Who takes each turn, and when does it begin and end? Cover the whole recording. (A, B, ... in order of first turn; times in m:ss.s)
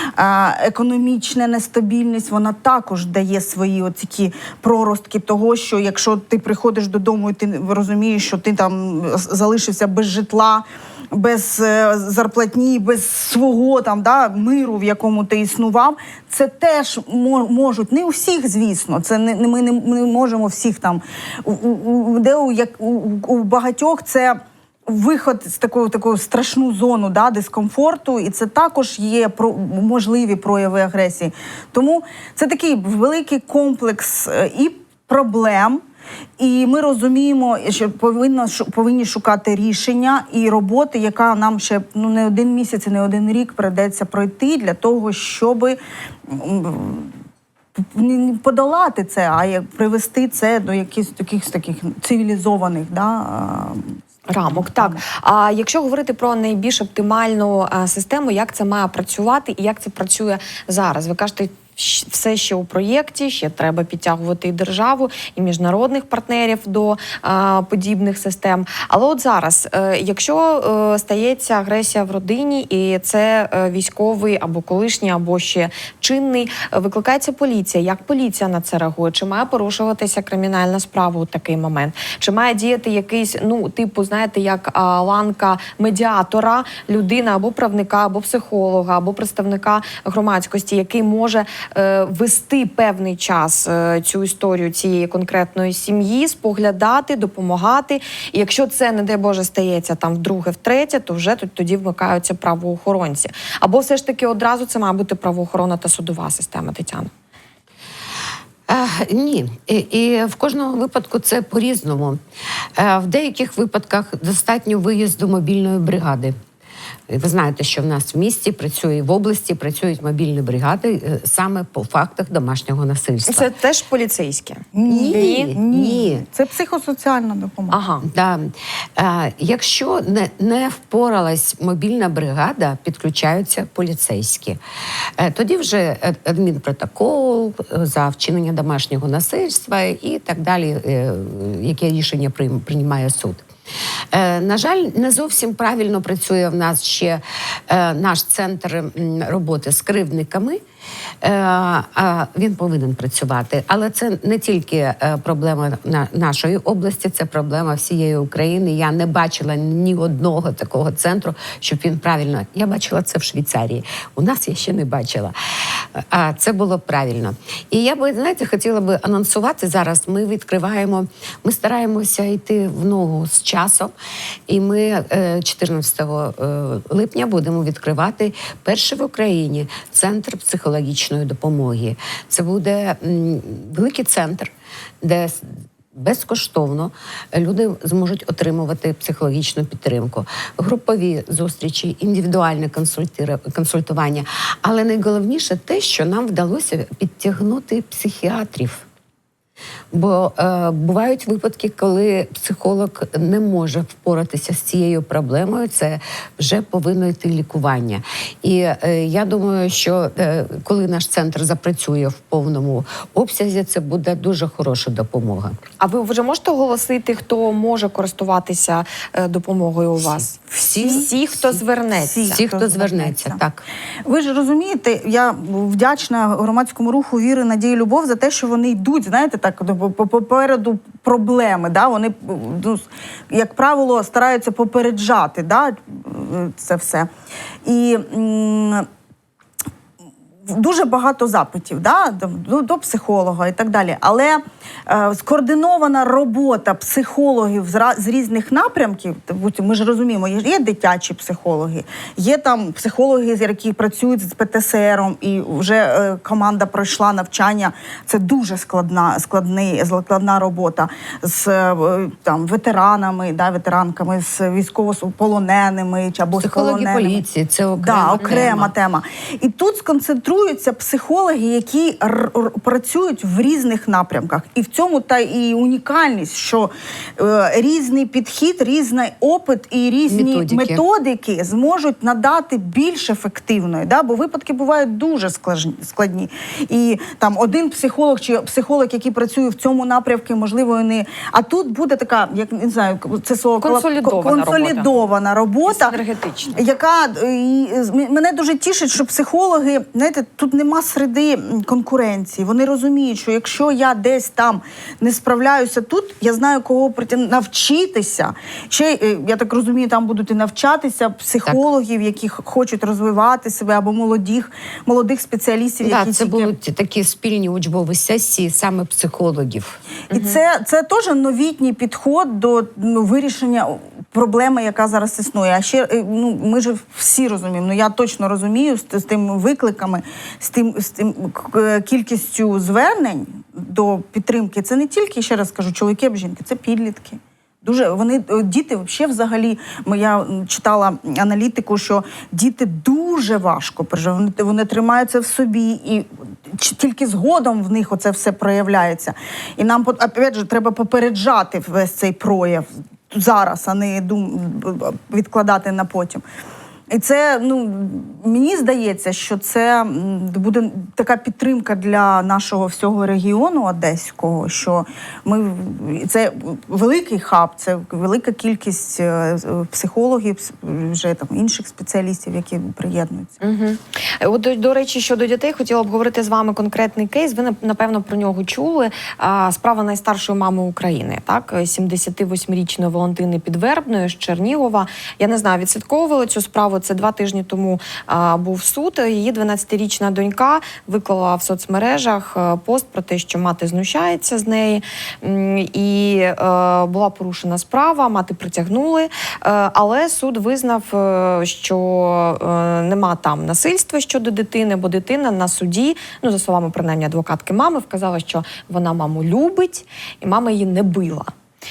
0:00.2-0:35.8 A
0:36.4-0:47.1 A
0:47.8-0:55.0 A
0:54.3-1:47.1 B
1:48.7-1:52.2 C
1:52.8-1:56.3 C
1:57.1-2:03.5 C
2:03.3-2:05.5 B
2:04.7-2:07.8 A
2:04.8-2:06.2 C
2:07.7-2:08.0 B
2:08.0-2:14.6 C
2:15.2-2:23.4 C
2:24.1-2:30.6 C
2:31.2-2:45.3 C
2:45.9-2:53.9 C
2:54.5-3:18.8 C
3:19.9-3:35.6 C
3:35.8-3:40.3 B
3:40.0-3:41.6 C
3:40.5-3:41.1 A
3:40.8-3:42.4 B
3:42.0-3:43.4 A
3:42.3-3:43.6 C
3:44.0-3:57.1 A
3:57.6-3:58.9 A
4:00.4-4:27.2 A
4:26.3-4:28.7 C
4:27.8-4:56.0 A
4:40.1-4:40.8 C
4:53.6-4:54.9 B
4:55.6-4:56.6 B
4:56.5-5:16.5 A
5:15.8-5:19.8 C
5:20.1-5:20.4 B
5:20.1-5:56.2 A
5:56.9-6:13.4 A
6:13.4-6:51.3 B